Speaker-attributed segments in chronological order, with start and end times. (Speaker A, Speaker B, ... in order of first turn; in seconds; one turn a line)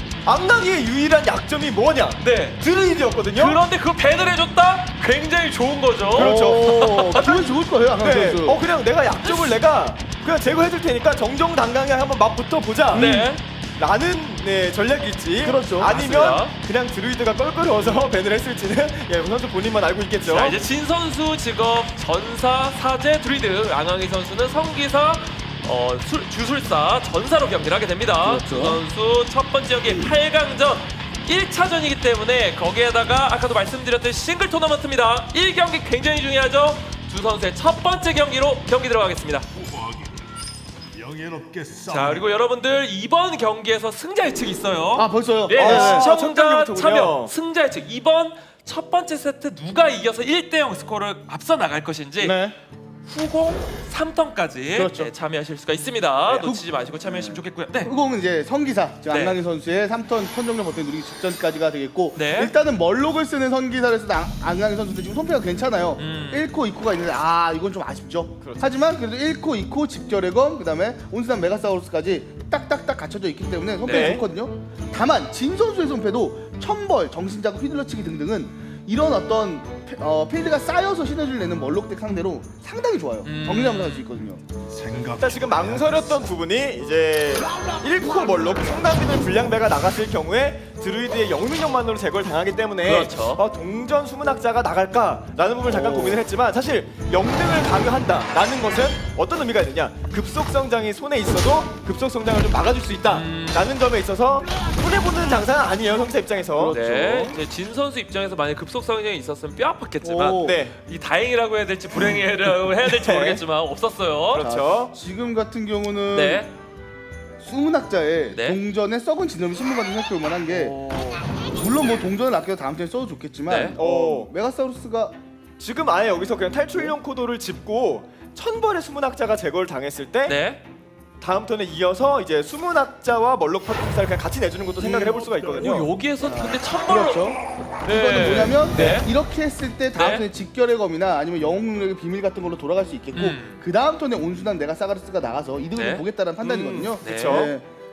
Speaker A: 0.2-3.6
Speaker B: 2.2-2.6
Speaker B: 3.3-7.5
Speaker A: 6.1-7.2
Speaker C: 6.2-8.6
Speaker A: 8.0-13.1
Speaker C: 12.9-13.3
Speaker B: 12.9-13.4
Speaker A: 13.8-20.6
Speaker C: 15.4-15.9
Speaker B: 15.8-16.6
Speaker B: 20.2-39.5
Speaker C: 28.2-28.8
Speaker D: 39.8-40.1
Speaker D: 41.0-42.3
Speaker B: 41.9-52.4
Speaker C: 45.0-46.1
Speaker A: 45.5-47.3
Speaker C: 52.2-52.6
Speaker B: 53.1-57.9
Speaker C: 54.7-55.1
Speaker A: 56.3-56.6
Speaker C: 57.0-84.4
Speaker B: 59.1-59.4
Speaker B: 62.1-62.5
Speaker B: 66.0-66.5
Speaker A: 68.4-68.7
Speaker B: 73.8-74.2
Speaker A: 73.9-74.2
Speaker B: 83.2-84.1
Speaker D: 84.7-86.2
Speaker A: 85.2-106.8
Speaker B: 92.8-93.4
Speaker C: 95.7-96.2
Speaker B: 103.1-103.7
Speaker C: 106.5-107.4
Speaker B: 106.7-114.5
Speaker C: 110.0-110.6
Speaker A: 110.4-110.8
Speaker A: 112.8-113.4
Speaker A: 114.3-114.9
Speaker C: 114.4-116.5
Speaker B: 116.1-116.5
Speaker C: 117.4-120.8
Speaker B: 118.3-118.6
Speaker B: 120.5-121.3
Speaker C: 121.5-125.2
Speaker B: 123.5-123.8
Speaker A: 123.8-124.3
Speaker A: 125.6-130.4
Speaker B: 130.2-130.6
Speaker A: 131.2-135.9
Speaker C: 134.8-135.4
Speaker B: 135.6-139.1
Speaker C: 136.2-147.7
Speaker B: 139.9-140.3
Speaker B: 143.2-143.6
Speaker B: 145.8-146.1
Speaker A: 146.4-147.5
Speaker B: 147.0-147.5